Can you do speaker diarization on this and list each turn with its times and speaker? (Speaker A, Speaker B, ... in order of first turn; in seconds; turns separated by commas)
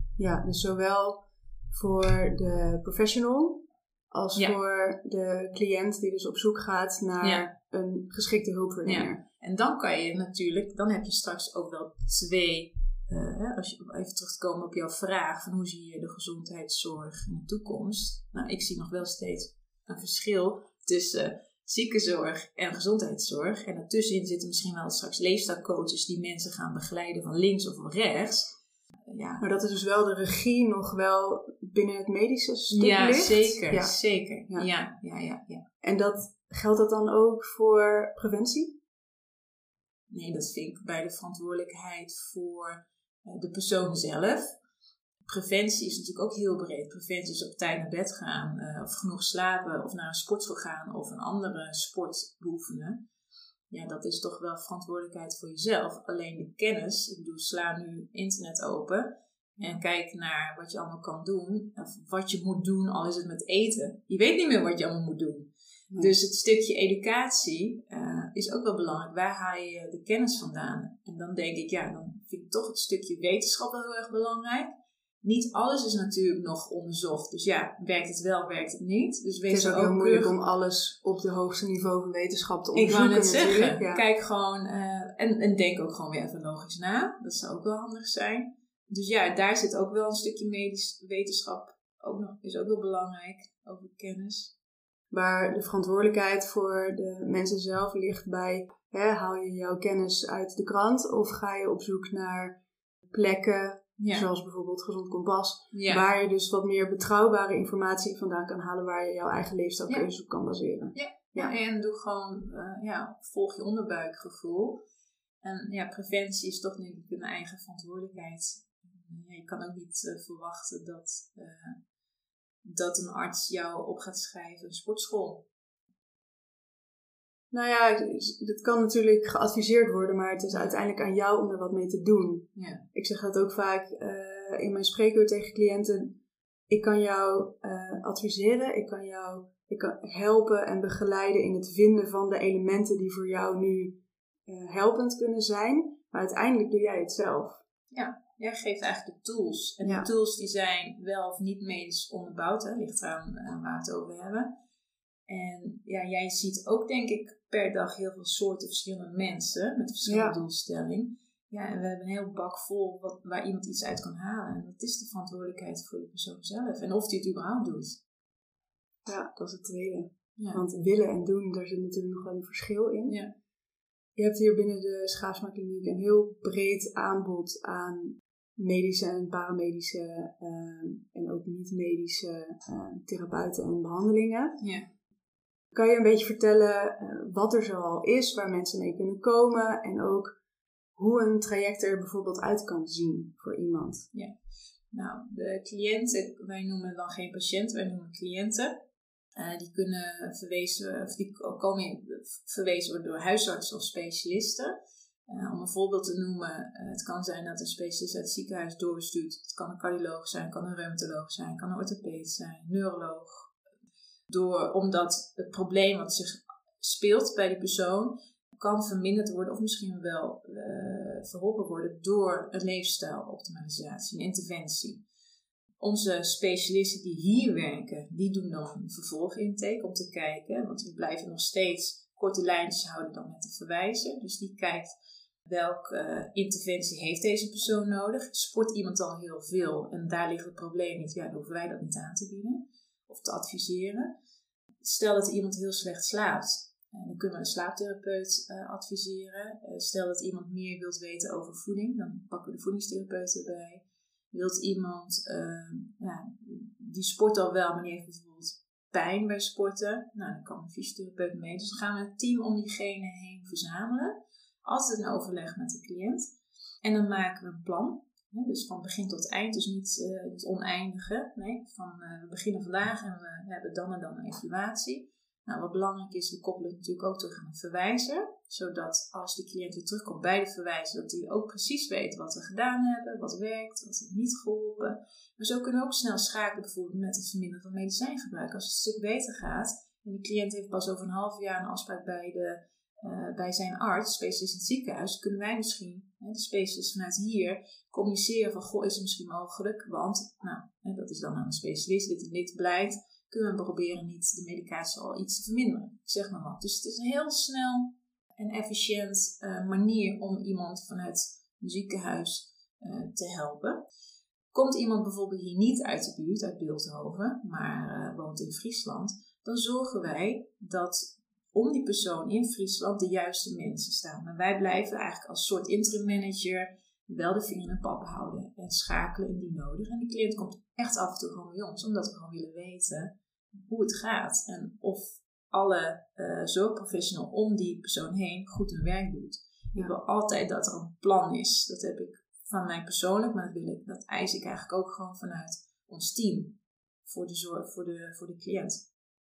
Speaker A: 0.2-9.2, Speaker B: 7.2-7.5, Speaker B: 8.8-28.6, Speaker B: 29.1-29.4, Speaker A: 29.4-34.7, Speaker B: 32.7-35.6, Speaker A: 35.8-38.8, Speaker B: 40.1-44.5, Speaker B: 45.2-53.0, Speaker B: 53.7-74.7, Speaker B: 75.2-80.3, Speaker A: 79.5-84.0, Speaker B: 82.7-94.5, Speaker A: 95.1-102.6, Speaker A: 103.1-111.5, Speaker B: 104.0-104.3, Speaker B: 105.7-106.0, Speaker B: 110.9-114.8, Speaker B: 115.4-121.8, Speaker B: 122.6-125.5, Speaker A: 127.5-136.2, Speaker B: 132.6-132.8, Speaker A: 136.7-147.6, Speaker B: 147.9-154.5, Speaker A: 149.8-150.1, Speaker B: 155.3-168.0, Speaker A: 160.1-160.4, Speaker A: 169.1-173.2, Speaker B: 170.4-170.6, Speaker B: 173.1-173.3, Speaker A: 174.2-184.6, Speaker B: 184.6-184.9, Speaker A: 185.7-190.3, Speaker A: 190.9-194.1, Speaker B: 194.9-198.8, Speaker B: 199.3-204.7, Speaker B: 205.3-213.5, Speaker B: 214.3-225.0, Speaker B: 225.8-234.9, Speaker B: 235.4-244.1, Speaker B: 244.8-266.3, Speaker B: 266.8-313.8, Speaker B: 314.5-348.9